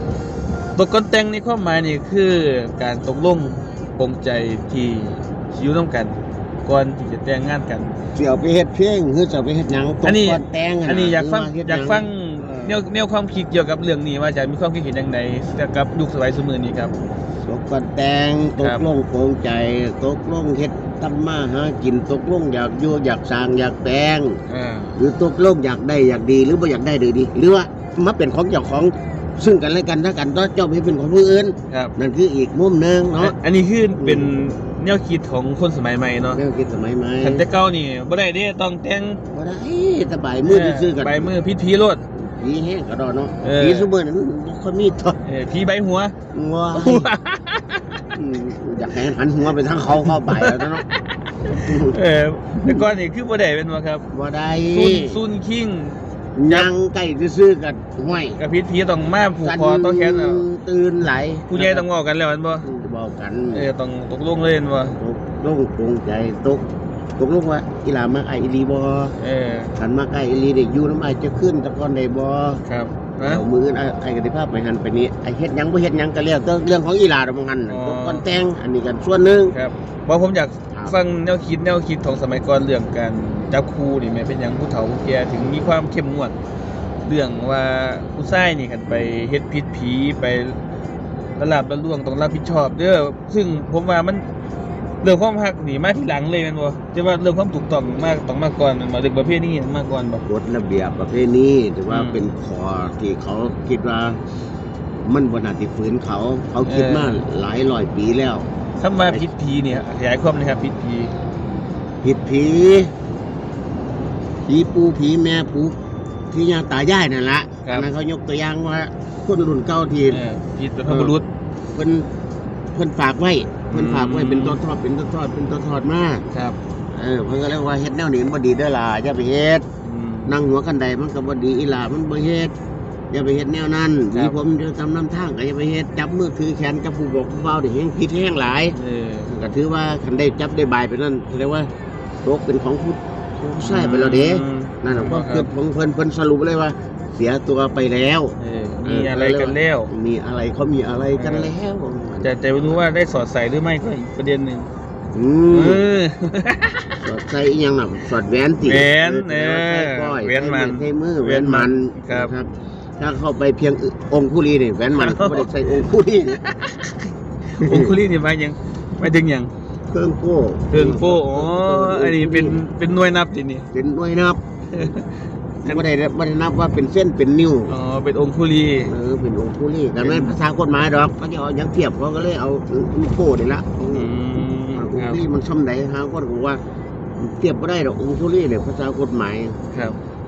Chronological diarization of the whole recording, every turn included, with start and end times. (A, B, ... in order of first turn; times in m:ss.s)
0:00.8-0:08.0 A
0:08.2-0:12.8 B
0:10.0-0:17.0 A
0:17.5-0:24.4 B
0:18.6-0:18.9 A
0:24.5-0:25.0 A
0:25.0-0:33.4 B
0:33.2-0:36.4 A
0:34.0-0:34.3 B
0:36.3-0:37.4 B
0:37.2-0:39.2 A
0:39.3-0:41.3 B
0:40.5-0:42.0 A
0:42.1-0:45.2 B
0:43.4-0:43.9 A
0:45.2-0:46.2 A
0:46.3-0:47.1 B
0:46.7-0:48.0 A
0:48.1-0:50.9 B
0:50.0-0:54.1 A
0:51.6-0:52.0 B
0:54.1-0:55.2 B
0:54.7-0:56.7 A
0:56.4-0:58.4 B
0:58.4-1:00.4 A
0:59.4-1:01.9 B
1:01.5-1:02.7 A
1:02.6-1:03.7 B
1:03.5-1:05.0 A
1:05.0-1:06.6 B
1:07.2-1:09.2 B
1:09.2-1:09.7 A
1:09.8-1:12.6 B
1:12.6-1:13.4 A
1:13.2-1:19.6 B
1:17.7-1:18.2 A
1:19.5-1:26.4 A
1:27.1-1:30.6 A
1:31.4-1:34.3 A
1:35.0-1:40.2 A
1:40.2-1:44.2 B
1:41.9-1:42.2 A
1:45.0-1:48.5 B
1:46.6-1:47.2 A
1:48.8-1:51.1 A
1:52.0-1:52.9 B
1:54.5-1:55.8 B
1:56.3-2:00.2 B
2:00.1-2:01.3 A
2:00.9-2:01.1 B
2:01.7-2:02.1 B
2:02.7-2:06.3 B
2:03.7-2:04.6 A
2:06.3-2:06.6 A
2:06.9-2:09.6 B
2:09.8-2:10.4 A
2:10.3-2:12.5 B
2:13.1-2:21.7 B
2:18.7-2:19.3 A
2:22.2-2:32.8 B
2:23.6-2:25.5 A
2:28.4-2:29.9 A
2:31.2-2:31.5 A
2:32.2-2:34.7 A
2:35.1-2:35.9 B
2:35.5-2:37.0 A
2:37.0-2:46.4 B
2:38.6-2:42.3 A
2:45.0-2:45.5 A
2:46.3-2:49.5 A
2:47.6-2:48.0 B
2:49.9-2:52.6 B
2:50.7-2:53.7 A
2:53.7-2:54.9 B
2:54.7-2:55.8 A
2:55.6-2:57.8 B
2:57.7-2:58.9 A
2:58.9-3:06.6 B
3:00.0-3:00.4 A
3:03.9-3:05.2 A
3:07.2-3:09.6 B
3:09.7-3:10.0 A